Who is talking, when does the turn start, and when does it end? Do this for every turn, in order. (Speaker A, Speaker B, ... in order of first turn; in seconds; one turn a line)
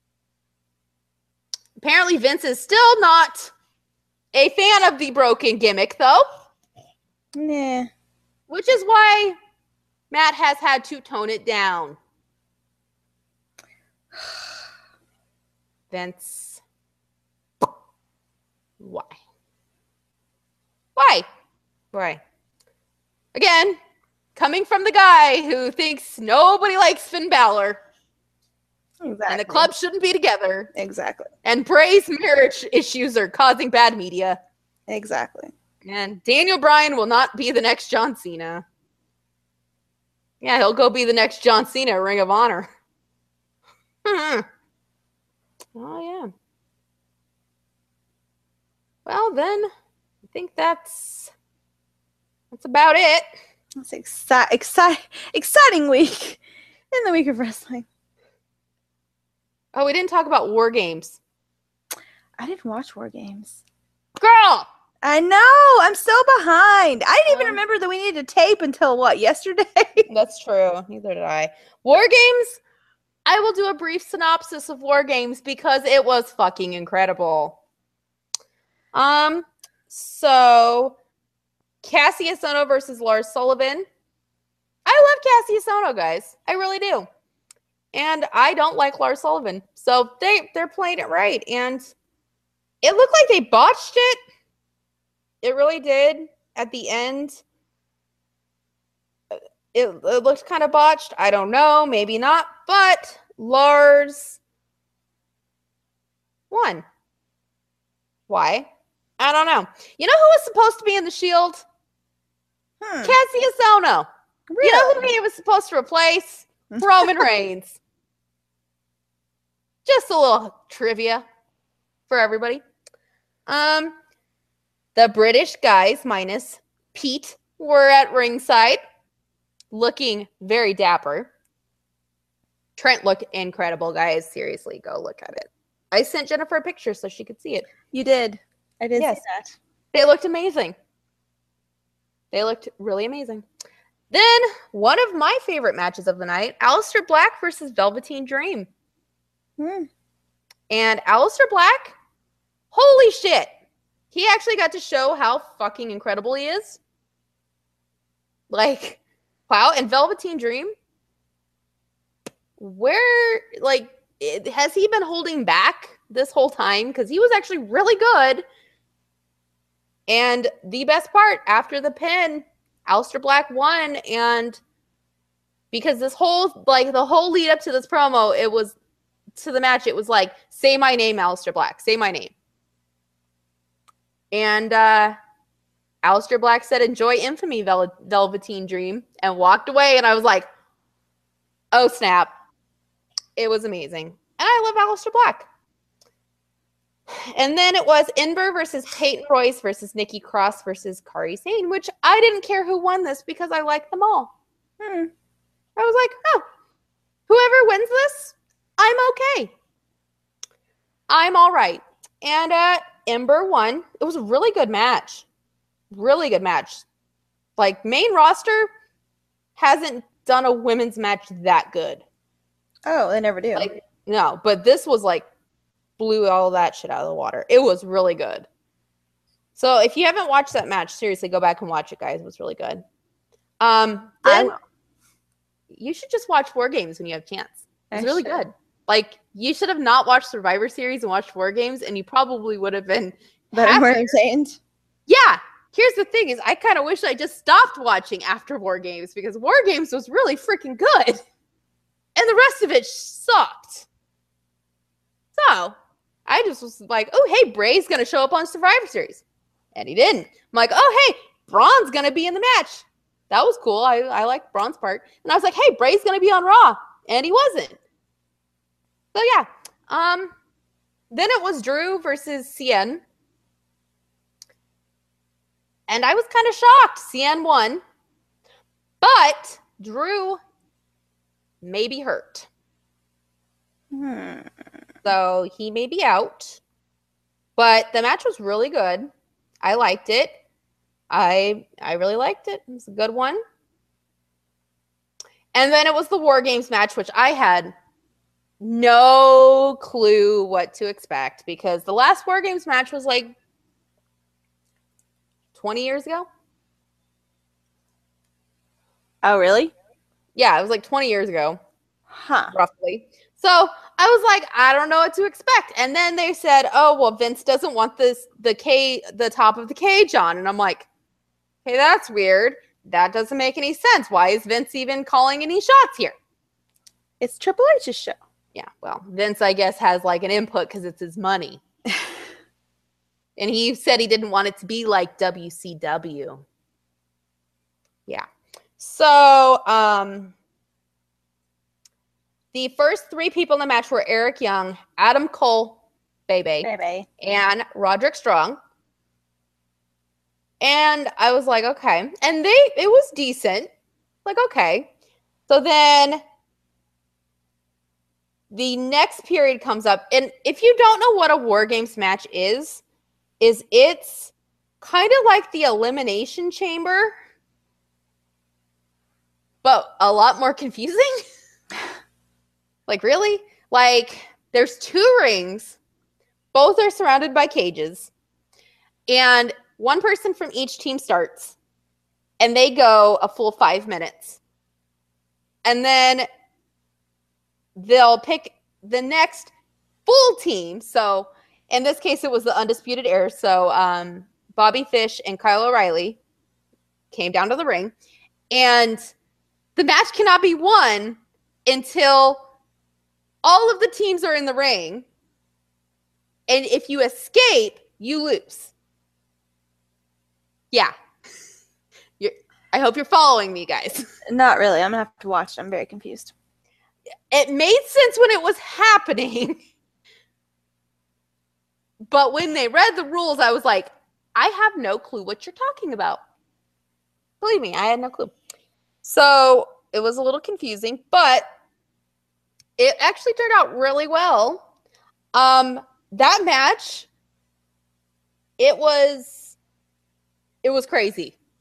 Speaker A: 1.8-3.5
Speaker A: 4.3-6.3
Speaker B: 7.3-7.9
Speaker A: 8.5-9.3
Speaker A: 10.1-12.0
Speaker A: 15.9-16.6
Speaker A: 18.8-19.2
Speaker A: 20.9-21.2
Speaker A: 21.9-22.2
Speaker A: 23.3-23.8
Speaker A: 24.4-27.8
Speaker B: 29.0-29.7
Speaker A: 29.3-30.7
Speaker B: 30.7-31.3
Speaker A: 31.4-34.4
Speaker B: 34.9-35.5
Speaker A: 35.8-38.6
Speaker A: 40.4-42.7
Speaker A: 44.0-44.5
Speaker A: 45.7-46.3
Speaker A: 49.0-49.7
Speaker A: 50.3-51.3
Speaker A: 52.5-53.2
Speaker B: 53.8-56.4
Speaker B: 56.9-57.9
Speaker A: 59.7-61.2
Speaker B: 62.4-63.6
Speaker A: 64.2-64.7
Speaker B: 65.0-70.1
Speaker A: 67.3-67.6
Speaker A: 70.1-72.6
Speaker A: 73.2-77.6
Speaker A: 78.9-81.0
Speaker A: 81.8-83.8
Speaker A: 84.8-87.1
Speaker A: 87.9-91.9
Speaker A: 92.8-94.2
Speaker A: 95.4-97.4
Speaker A: 99.3-104.4
Speaker A: 106.5-106.8
Speaker A: 108.3-108.7
Speaker A: 109.2-111.6
Speaker B: 112.8-113.2
Speaker A: 113.0-114.1
Speaker B: 114.5-115.1
Speaker A: 114.6-117.8
Speaker B: 116.7-117.2
Speaker A: 119.8-121.2
Speaker A: 122.1-122.6
Speaker A: 123.5-123.9
Speaker A: 124.9-128.8
Speaker A: 129.7-131.3
Speaker A: 132.8-137.7
Speaker B: 137.9-139.6
Speaker A: 138.9-139.2
Speaker A: 139.9-140.7
Speaker A: 142.3-143.4
Speaker A: 144.1-148.7
Speaker B: 149.6-149.9
Speaker A: 150.7-151.9
Speaker A: 152.7-153.5
Speaker A: 154.1-156.8
Speaker A: 158.5-160.7
Speaker A: 162.6-168.4
Speaker A: 170.1-174.6
Speaker A: 175.7-178.7
Speaker A: 179.3-182.3
Speaker A: 184.3-185.2
Speaker A: 186.0-190.5
Speaker A: 191.7-192.3
Speaker A: 193.3-195.4
Speaker A: 197.1-204.3
Speaker B: 204.8-205.1
Speaker A: 205.8-206.4
Speaker A: 207.3-209.5
Speaker A: 211.1-215.2
Speaker A: 215.9-216.8
Speaker A: 217.6-218.7
Speaker A: 219.6-222.0
Speaker B: 222.8-223.7
Speaker A: 223.5-225.2
Speaker A: 226.0-228.5
Speaker A: 229.6-232.8
Speaker A: 233.6-234.5
Speaker B: 234.2-234.6
Speaker A: 235.7-244.2
Speaker B: 237.9-238.4
Speaker B: 243.5-244.6
Speaker A: 245.1-251.2
Speaker A: 252.2-253.9
Speaker A: 255.3-255.7
Speaker A: 256.3-259.2
Speaker A: 259.7-267.8
Speaker A: 269.1-270.3
Speaker A: 271.1-273.0
Speaker A: 275.9-277.8
Speaker A: 279.0-280.4
Speaker A: 281.6-282.5
Speaker B: 283.9-284.5
Speaker A: 285.0-286.6
Speaker A: 287.6-289.1
Speaker A: 289.6-290.3
Speaker A: 291.1-293.4
Speaker A: 295.5-297.7
Speaker A: 298.6-303.3
Speaker A: 305.5-306.3
Speaker B: 309.2-309.7
Speaker A: 310.4-311.6
Speaker B: 312.1-312.5
Speaker A: 312.5-320.9
Speaker A: 321.6-326.1
Speaker B: 327.2-328.2
Speaker A: 328.5-331.6
Speaker A: 333.4-336.4
Speaker A: 338.8-340.3
Speaker A: 342.5-348.6
Speaker B: 346.6-347.1
Speaker A: 350.6-353.7
Speaker A: 354.2-354.9
Speaker A: 355.5-356.2
Speaker A: 358.5-362.8
Speaker A: 363.4-367.1
Speaker A: 369.6-371.2
Speaker A: 372.9-375.8
Speaker A: 376.5-378.1
Speaker A: 379.1-381.6
Speaker A: 382.4-384.4
Speaker A: 385.6-386.3
Speaker A: 387.8-389.5
Speaker A: 390.1-396.2
Speaker A: 397.1-397.9
Speaker A: 398.5-399.1
Speaker A: 399.8-402.4
Speaker A: 403.4-405.1
Speaker A: 406.5-408.7
Speaker A: 412.2-414.1
Speaker B: 414.3-416.3
Speaker A: 417.3-419.6
Speaker A: 422.1-426.2
Speaker A: 427.4-428.3
Speaker A: 429.0-431.4
Speaker A: 432.8-434.6
Speaker A: 435.3-437.1
Speaker A: 438.6-439.6
Speaker A: 440.6-441.4